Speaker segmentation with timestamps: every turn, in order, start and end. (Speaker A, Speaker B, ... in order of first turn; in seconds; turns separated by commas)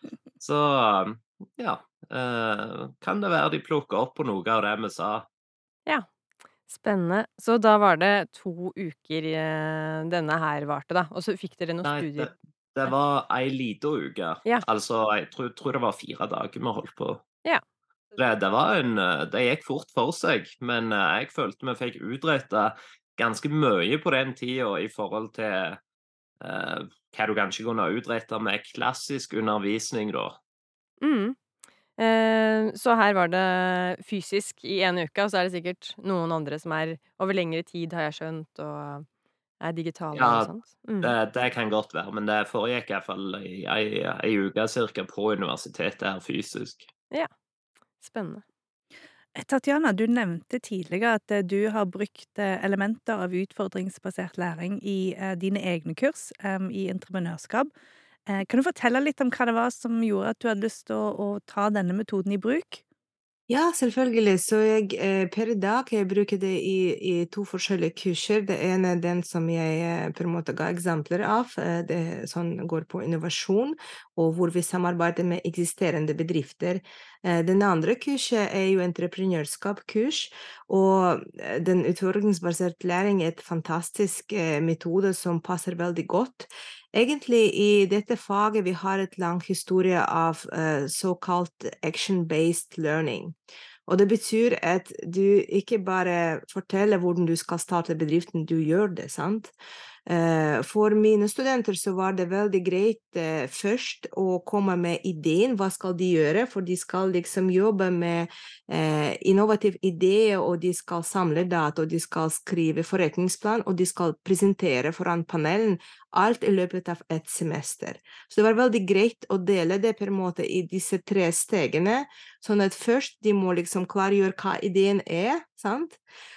Speaker A: 0.4-5.3, Speaker B: 6.7-12.3, Speaker A: 11.8-17.2, Speaker A: 18.2-25.8, Speaker A: 26.4-30.4, Speaker B: 31.0-31.4, Speaker B: 32.0-39.1, Speaker B: 39.6-41.1, Speaker A: 40.1-40.5, Speaker A: 41.0-46.9, Speaker B: 48.0-48.4, Speaker C: 49.4-57.7, Speaker C: 58.3-62.8, Speaker D: 63.5-93.4, Speaker D: 93.9-99.5, Speaker D: 100.1-126.0